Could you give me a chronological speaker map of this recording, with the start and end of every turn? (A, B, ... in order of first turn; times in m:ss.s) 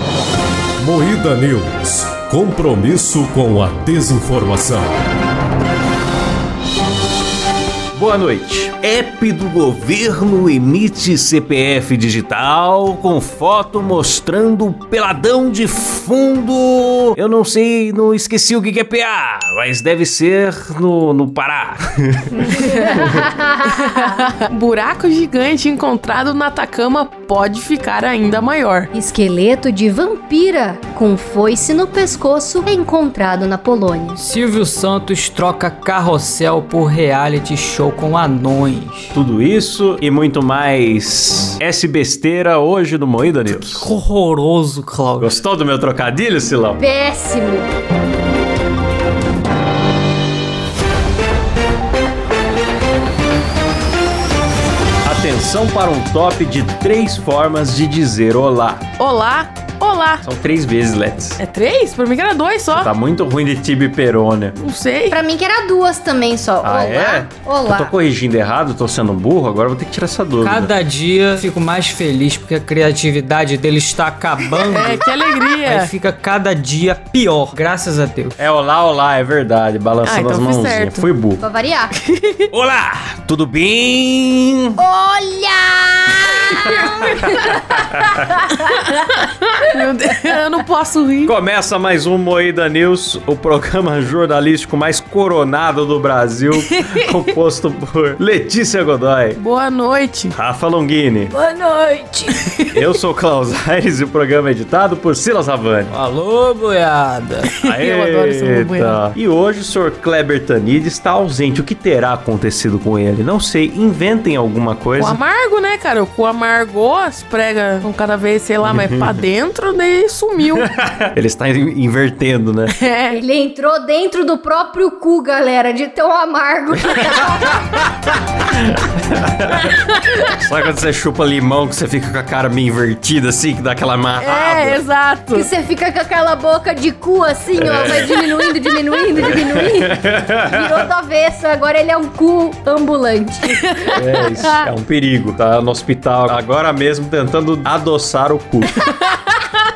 0:00.8-0:04.9 A
0:07.9-0:23.2 B
0:22.4-0:24.1 C
0:23.6-0:28.9 D
0:28.9-0:34.2 C
0:34.2-0:39.2 E
0:39.1-0:43.9 B
0:43.5-0:45.3 E
0:45.2-0:46.8 B
0:46.8-0:47.7 C
0:55.0-0:58.8 B
0:59.0-1:00.2 D
1:00.2-1:01.4 B
1:01.4-1:02.9 D
1:02.7-1:04.6 B
1:04.6-1:05.2 D
1:05.1-1:07.9 C
1:06.6-1:10.7 B
1:10.4-1:18.4 E
1:14.7-1:15.9 D
1:18.4-1:21.4 B
1:20.0-1:21.1 D
1:21.4-1:21.9 C
1:22.1-1:22.4 D
1:22.5-1:24.8 B
1:24.8-1:27.6 C
1:26.5-1:27.5 D
1:26.6-1:27.2 B
1:27.9-1:28.3 B
1:28.4-1:31.3 D
1:31.2-1:39.4 B
1:39.4-1:40.3 D
1:40.3-1:41.3 B
1:41.3-1:42.3 E
1:42.7-1:45.9 B
1:45.9-1:47.5 E
1:47.6-1:55.2 B
1:47.6-1:49.0 D
1:55.0-2:00.7 D
1:58.6-1:59.2 B
2:00.5-2:02.7 B
2:02.8-2:03.2 D
2:03.1-2:07.6 C
2:06.8-2:14.8 B
2:09.6-2:10.3 D
2:14.2-2:15.5 D
2:15.3-2:23.9 C
2:17.6-2:18.1 B
2:19.2-2:20.8 B
2:23.7-2:24.4 D
2:23.9-2:28.8 B
2:28.8-2:29.3 D